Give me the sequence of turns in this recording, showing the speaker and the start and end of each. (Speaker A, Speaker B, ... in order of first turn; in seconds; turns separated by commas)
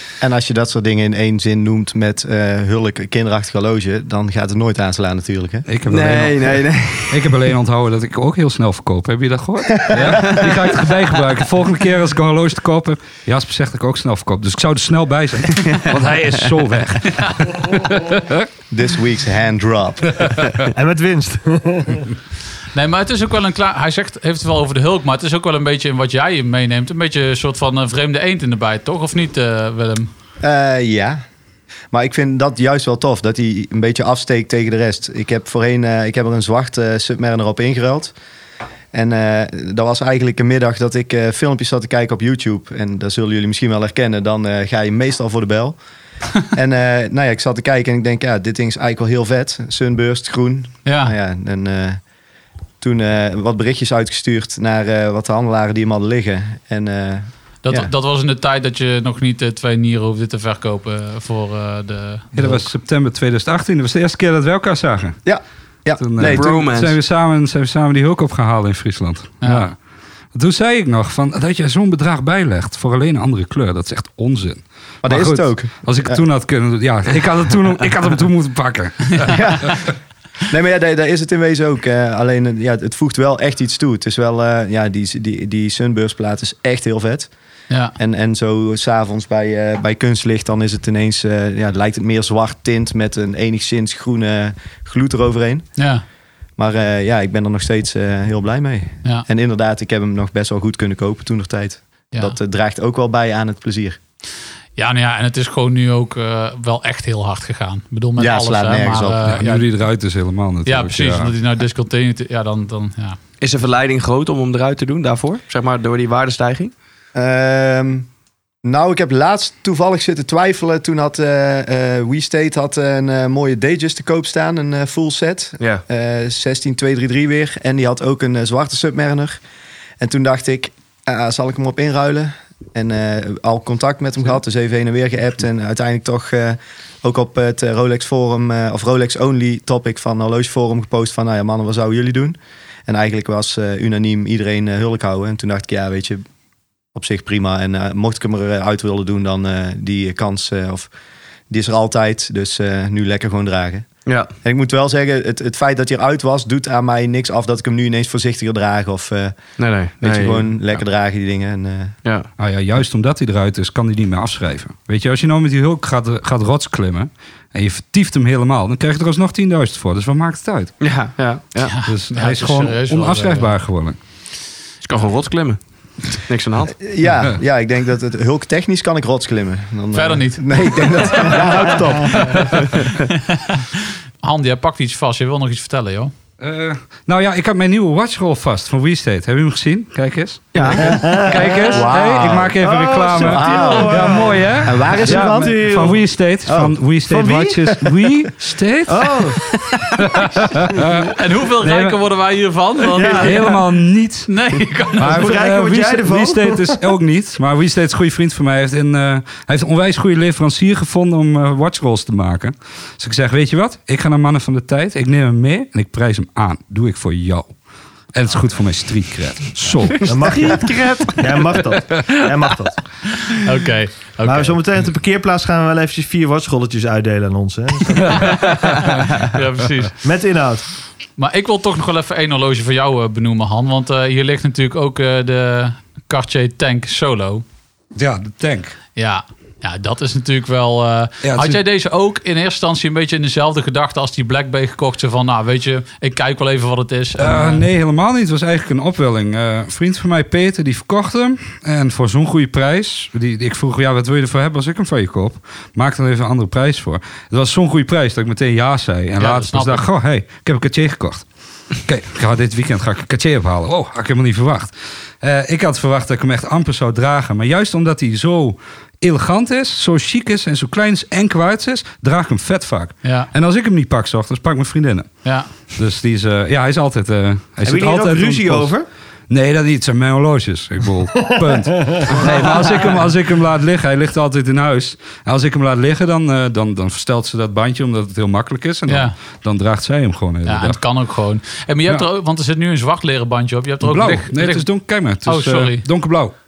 Speaker A: 0.2-5.7, Speaker B: 5.7-18.5, Speaker C: 5.9-7.4, Speaker C: 10.1-10.9, Speaker A: 18.7-20.1, Speaker B: 20.2-20.6, Speaker D: 20.7-22.1, Speaker E: 22.7-30.1, Speaker A: 30.4-31.2, Speaker A: 31.9-38.1, Speaker A: 38.9-45.8, Speaker A: 46.5-52.0, Speaker E: 50.9-51.1, Speaker A: 52.8-57.9, Speaker E: 57.6-62.3, Speaker B: 62.3-65.2, Speaker A: 65.2-66.6, Speaker B: 66.0-69.8, Speaker C: 66.2-67.0, Speaker E: 69.4-69.7, Speaker B: 70.3-79.8, Speaker A: 75.0-76.2, Speaker A: 79.3-79.9, Speaker A: 80.5-87.3, Speaker E: 87.7-88.0, Speaker A: 88.0-95.7, Speaker E: 95.8-96.0, Speaker A: 96.6-104.0, Speaker E: 104.8-109.7, Speaker A: 108.2-109.3, Speaker B: 109.2-111.3, Speaker E: 110.7-113.2, Speaker C: 113.4-116.7, Speaker A: 117.2-118.1, Speaker A: 118.6-129.4, Speaker A: 130.0-146.2, Speaker A: 146.9-150.9, Speaker A: 151.5-153.9, Speaker C: 154.1-154.3, Speaker A: 154.4-159.4, Speaker C: 159.6-160.5, Speaker A: 160.0-161.9, Speaker C: 162.0-162.3, Speaker B: 162.4-170.7, Speaker C: 170.8-171.8, Speaker E: 171.7-173.5, Speaker B: 171.9-174.0, Speaker C: 174.8-176.8, Speaker A: 176.8-182.5, Speaker E: 179.9-181.3, Speaker D: 181.6-182.2, Speaker E: 182.0-182.5, Speaker E: 183.1-183.7, Speaker E: 184.2-186.1, Speaker B: 186.4-202.0, Speaker C: 190.5-191.1, Speaker D: 190.8-196.0, Speaker A: 191.5-192.6, Speaker A: 193.2-195.5, Speaker A: 196.5-196.8, Speaker D: 197.1-197.8, Speaker D: 198.9-199.4, Speaker E: 201.2-203.6, Speaker D: 202.9-203.4, Speaker B: 203.0-204.3, Speaker E: 204.3-205.3, Speaker B: 205.0-217.6, Speaker D: 205.1-206.8, Speaker B: 218.1-220.6, Speaker C: 220.1-221.4, Speaker D: 220.1-222.8, Speaker E: 223.3-224.6, Speaker D: 224.2-228.6, Speaker E: 228.1-230.0, Speaker D: 230.0-230.7, Speaker E: 231.2-237.4, Speaker B: 237.9-238.8, Speaker E: 239.0-247.7, Speaker B: 241.2-241.6, Speaker B: 247.2-261.3, Speaker E: 259.2-259.9, Speaker B: 261.8-278.7, Speaker E: 273.0-273.3, Speaker E: 275.2-275.5, Speaker D: 277.6-278.9, Speaker B: 279.3-290.8, Speaker D: 281.2-282.9, Speaker E: 288.9-289.1, Speaker E: 290.5-295.9, Speaker B: 293.8-296.3